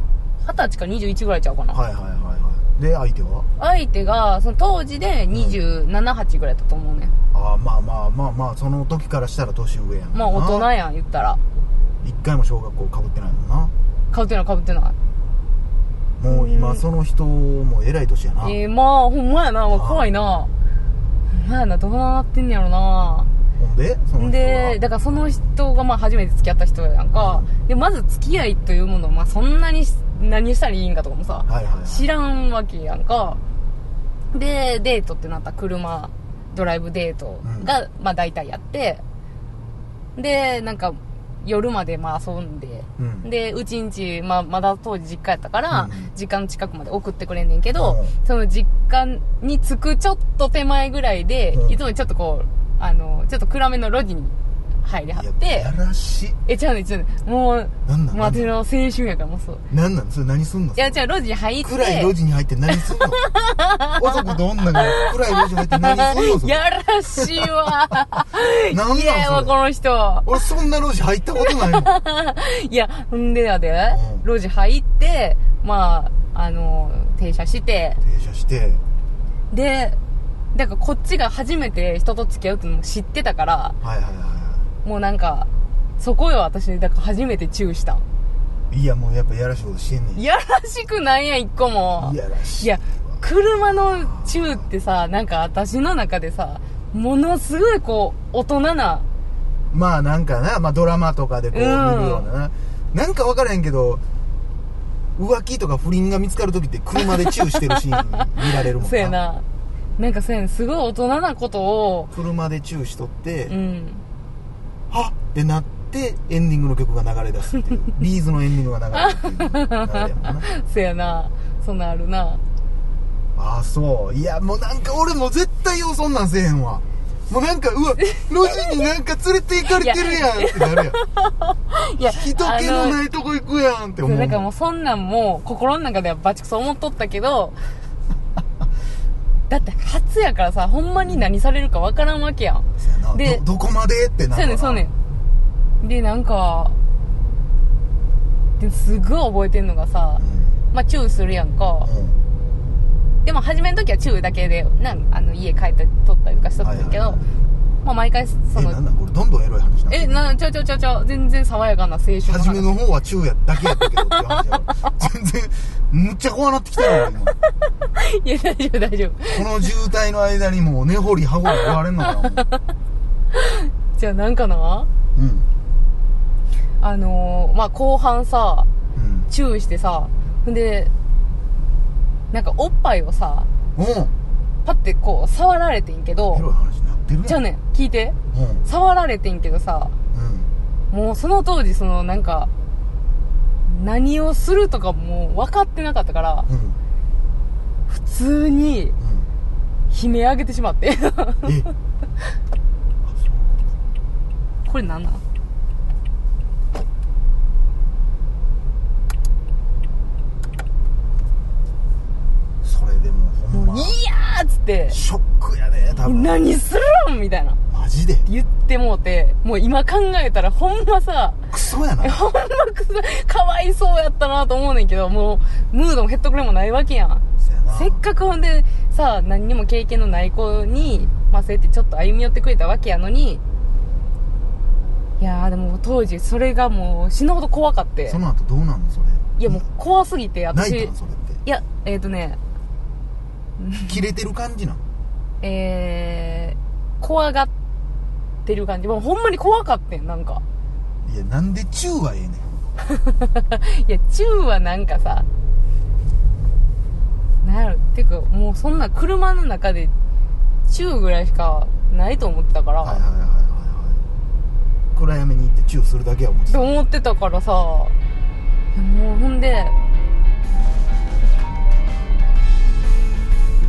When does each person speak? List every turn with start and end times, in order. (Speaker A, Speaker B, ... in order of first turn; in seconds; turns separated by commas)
Speaker A: 0.4-1.8, Speaker B: 1.7-3.5, Speaker A: 3.6-7.1, Speaker B: 5.3-5.6, Speaker B: 7.3-10.7, Speaker A: 10.1-11.4, Speaker B: 12.0-13.7, Speaker A: 14.1-14.9, Speaker B: 16.2-18.6, Speaker A: 16.3-16.8, Speaker A: 18.4-20.5, Speaker B: 19.7-20.1, Speaker A: 21.3-23.3, Speaker B: 23.6-24.8, Speaker A: 24.2-33.4, Speaker B: 27.1-27.5, Speaker B: 31.5-32.1, Speaker A: 34.3-39.0, Speaker B: 37.4-37.7, Speaker A: 40.1-55.7, Speaker B: 43.0-43.3, Speaker B: 45.7-46.1, Speaker B: 47.7-48.1, Speaker B: 51.5-51.8, Speaker B: 55.1-56.4, Speaker A: 56.5-59.6, Speaker B: 57.9-58.5, Speaker B: 59.7-61.0, Speaker A: 60.8-62.1, Speaker B: 61.6-63.2, Speaker A: 63.2-64.1, Speaker B: 63.9-66.6, Speaker A: 64.8-70.3, Speaker B: 67.2-67.5, Speaker B: 68.7-69.6, Speaker B: 70.2-71.9, Speaker A: 71.4-78.0, Speaker B: 73.9-74.2, Speaker B: 78.0-78.8, Speaker A: 79.5-80.0, Speaker A: 80.5-83.8, Speaker B: 83.8-84.7, Speaker A: 84.8-88.0, Speaker B: 88.7-90.2, Speaker A: 90.2-99.0, Speaker B: 92.0-94.7, Speaker B: 99.7-104.0, Speaker A: 101.5-102.3, Speaker B: 105.2-109.2, Speaker A: 107.0-109.4, Speaker A: 110.0-112.1, Speaker B: 112.1-113.5, Speaker A: 113.5-114.0, Speaker B: 114.9-120.5, Speaker A: 119.0-122.4, Speaker B: 123.3-131.0, Speaker A: 129.7-133.0, Speaker B: 132.0-134.4, Speaker A: 134.0-137.6, Speaker A: 139.5-143.4, Speaker B: 142.8-144.9, Speaker A: 144.3-144.9, Speaker A: 145.8-146.8, Speaker A: 148.6-151.9, Speaker B: 150.2-150.6, Speaker B: 151.8-152.2, Speaker A: 153.2-157.2, Speaker B: 156.6-157.3, Speaker A: 157.8-158.8, Speaker B: 158.5-160.3, Speaker A: 159.9-162.7, Speaker B: 162.2-167.4, Speaker A: 163.6-164.2, Speaker A: 167.9-169.6, Speaker B: 169.3-172.5, Speaker A: 172.1-172.4, Speaker A: 173.3-174.9, Speaker B: 175.1-175.5, Speaker A: 176.8-178.7, Speaker B: 178.9-179.3, Speaker A: 179.3-180.9, Speaker A: 182.3-183.5, Speaker B: 183.8-184.1, Speaker A: 184.6-186.5, Speaker B: 186.3-187.4, Speaker A: 187.2-189.9, Speaker B: 188.3-188.6, Speaker B: 190.1-190.5, Speaker A: 190.9-192.5, Speaker A: 193.7-196.5, Speaker B: 196.5-196.8, Speaker A: 197.9-198.9, Speaker B: 199.0-199.3, Speaker A: 199.9-201.5, Speaker B: 203.0-203.7, Speaker A: 204.7-205.2, Speaker B: 212.6-214.0, Speaker A: 213.5-215.0, Speaker B: 214.9-216.4, Speaker A: 216.0-217.6, Speaker B: 217.7-218.3, Speaker A: 218.2-221.4, Speaker B: 221.5-222.2, Speaker A: 222.0-233.4, Speaker B: 227.4-228.0, Speaker A: 235.2-238.2, Speaker B: 238.1-239.6, Speaker A: 239.4-240.9, Speaker B: 240.5-241.4, Speaker A: 241.4-242.4, Speaker A: 243.6-244.0, Speaker B: 243.9-244.8, Speaker A: 245.4-247.5, Speaker A: 248.4-250.4, Speaker B: 251.0-252.5, Speaker A: 252.9-255.3, Speaker A: 257.4-259.9, Speaker A: 260.7-263.0, Speaker B: 262.8-264.0, Speaker B: 264.9-266.8, Speaker A: 266.5-267.9, Speaker A: 268.7-269.8